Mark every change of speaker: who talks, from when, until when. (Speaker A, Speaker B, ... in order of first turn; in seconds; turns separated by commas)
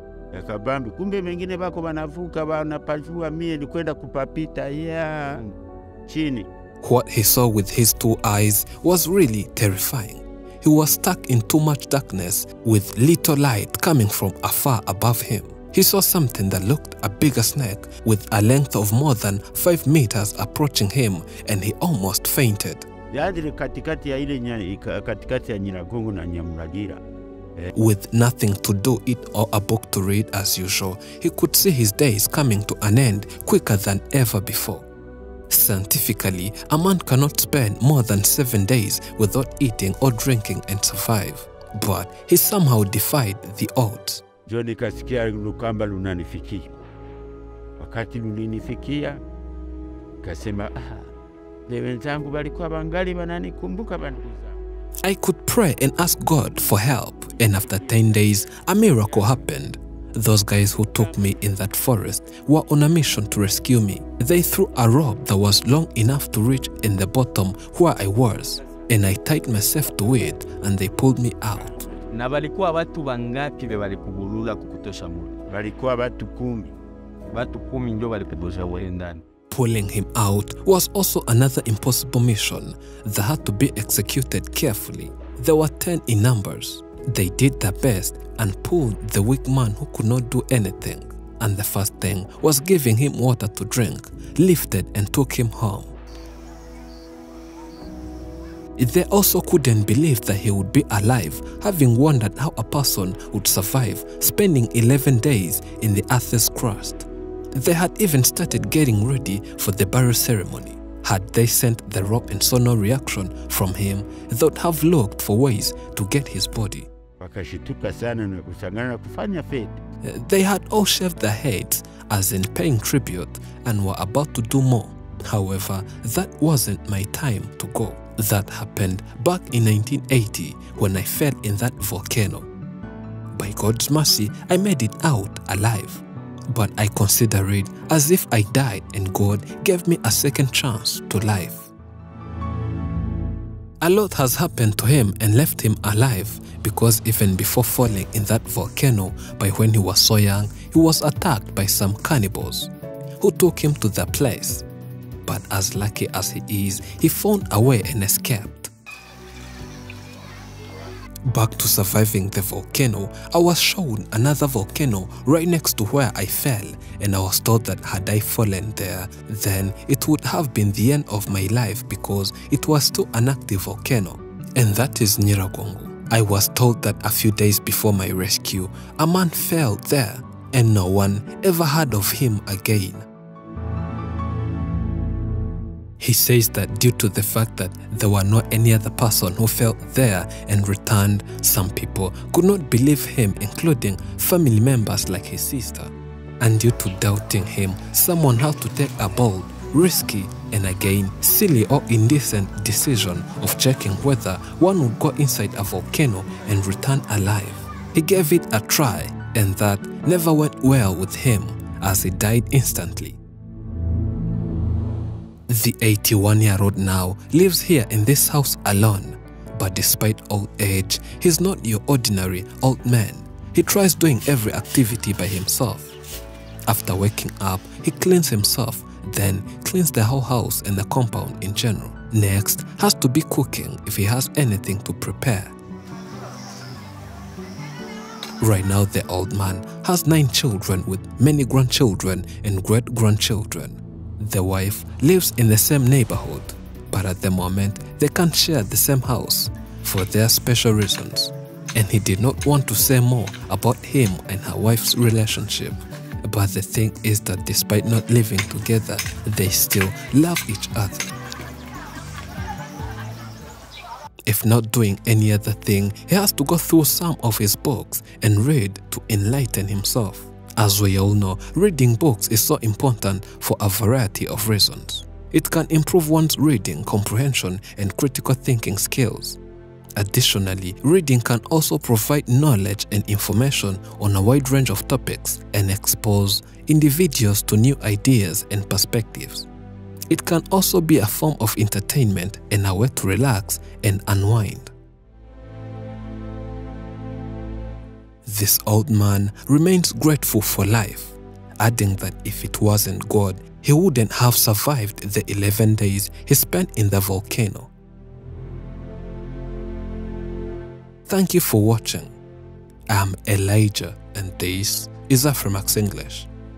Speaker A: 0.3-5.4, Speaker A: 6.0-6.5, Speaker B: 6.8-22.9, Speaker A: 23.1-27.0, Speaker B: 27.7-34.9, Speaker B: 35.5-44.2, Speaker A: 44.5-46.7, Speaker A: 47.8-49.2, Speaker A: 50.2-51.1, Speaker A: 51.7-54.6, Speaker B: 55.0-71.9, Speaker A: 56.9-59.4, Speaker C: 72.1-75.3, Speaker A: 75.5-76.7, Speaker C: 77.3-79.2, Speaker B: 79.5-96.0, Speaker B: 98.8-116.9, Speaker A: 117.2-119.8, Speaker B: 120.0-132.5, Speaker B: 133.3-141.7, Speaker B: 143.8-154.7, Speaker B: 155.2-158.7, Speaker B: 161.2-183.1, Speaker B: 186.0-213.2, Speaker B: 215.5-225.9, Speaker B: 226.7-235.5, Speaker B: 238.4-261.1, Speaker B: 264.3-279.4, Speaker B: 279.9-289.5, Speaker B: 290.1-294.7, Speaker B: 298.2-307.7, Speaker B: 311.1-312.1, Speaker B: 312.9-316.3